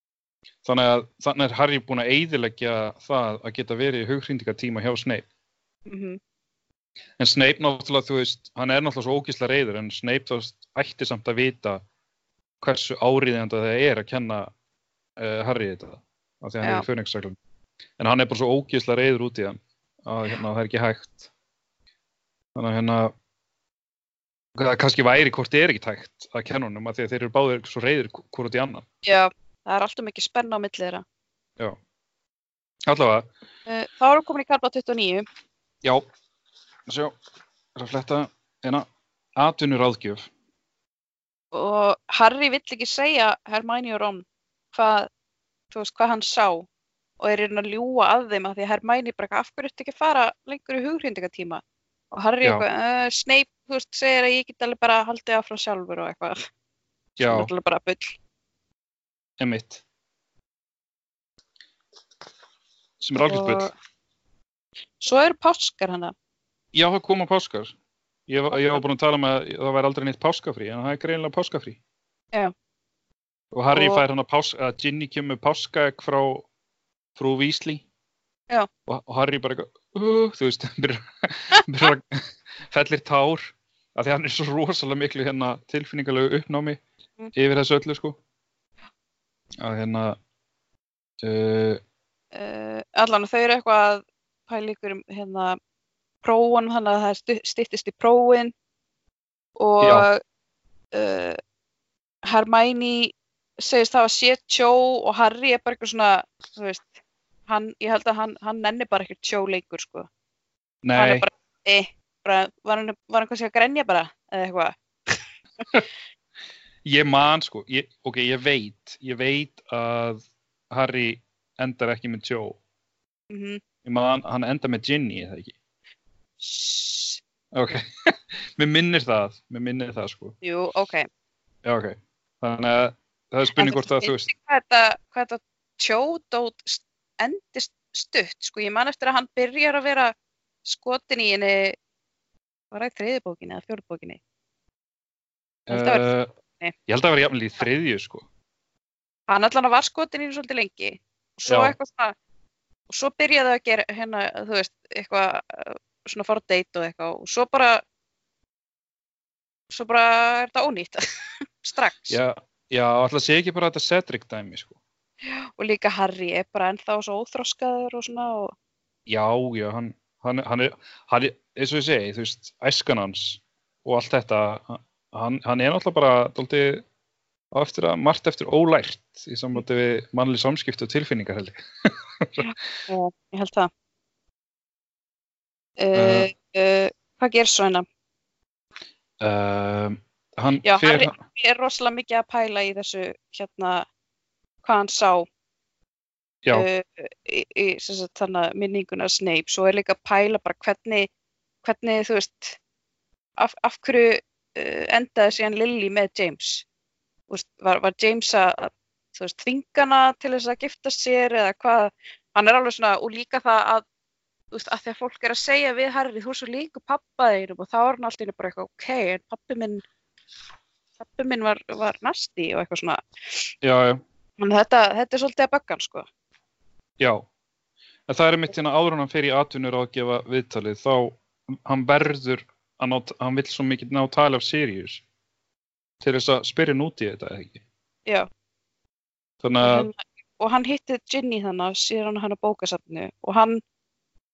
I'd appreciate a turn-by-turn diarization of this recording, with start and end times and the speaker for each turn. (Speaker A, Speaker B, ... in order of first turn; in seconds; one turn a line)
Speaker A: 0.6-5.2
Speaker B: 5.9-6.2
Speaker A: 7.2-11.8
Speaker A: 12.6-14.5
Speaker A: 15.2-17.4
Speaker A: 18.0-21.3
Speaker A: 22.6-23.1
Speaker A: 24.6-28.9
Speaker B: 29.0-31.0
Speaker A: 32.9-33.3
Speaker B: 33.7-35.3
Speaker A: 36.9-37.2
Speaker A: 37.8-40.3
Speaker B: 41.5-45.1
Speaker B: 45.7-46.7
Speaker B: 47.2-56.4
Speaker A: 57.2-57.5
Speaker B: 57.2-58.2
Speaker A: 59.4-59.8
Speaker A: 63.0-63.7
Speaker B: 63.1-63.7
Speaker B: 65.0-66.1
Speaker A: 66.7-67.7
Speaker A: 68.3-71.8
Speaker B: 68.5-68.8
Speaker A: 73.5-76.5
Speaker B: 73.7-74.0
Speaker A: 77.2-77.8
Speaker A: 78.9-86.8
Speaker A: 87.3-88.2
Speaker A: 89.6-90.2
Speaker A: 91.2-91.8
Speaker B: 92.3-95.6
Speaker B: 96.2-98.5
Speaker B: 99.6-100.2
Speaker A: 99.8-100.1
Speaker B: 100.9-101.4
Speaker B: 102.3-106.9
Speaker B: 107.5-110.1
Speaker A: 110.8-111.3
Speaker B: 111.0-115.2
Speaker A: 116.8-122.6
Speaker B: 123.3-123.6
Speaker A: 123.8-125.5
Speaker B: 126.4-127.2
Speaker A: 127.5-130.3
Speaker B: 130.4-131.1
Speaker A: 131.7-134.3
Speaker B: 133.6-140.1
Speaker B: 140.7-141.8
Speaker B: 142.7-144.2
Speaker A: 145.7-146.3
Speaker B: 145.7-146.7
Speaker A: 146.9-148.3
Speaker B: 149.3-152.2
Speaker A: 151.5-151.8
Speaker B: 152.9-157.8
Speaker B: 159.7-162.2
Speaker A: 162.1-164.8
Speaker B: 165.3-168.5
Speaker A: 169.1-176.8
Speaker A: 177.5-182.5
Speaker B: 182.4-183.7
Speaker B: 185.8-187.8
Speaker A: 185.9-186.3
Speaker A: 189.2-191.1
Speaker B: 190.6-193.9
Speaker B: 194.6-195.3
Speaker B: 196.5-201.1
Speaker B: 201.6-202.6
Speaker B: 203.4-206.7
Speaker B: 207.3-213.8
Speaker B: 214.5-219.8
Speaker B: 221.0-223.5
Speaker A: 223.6-224.0
Speaker B: 224.4-226.1
Speaker A: 228.1-235.0
Speaker A: 236.0-237.6
Speaker A: 239.4-239.9
Speaker B: 239.6-243.6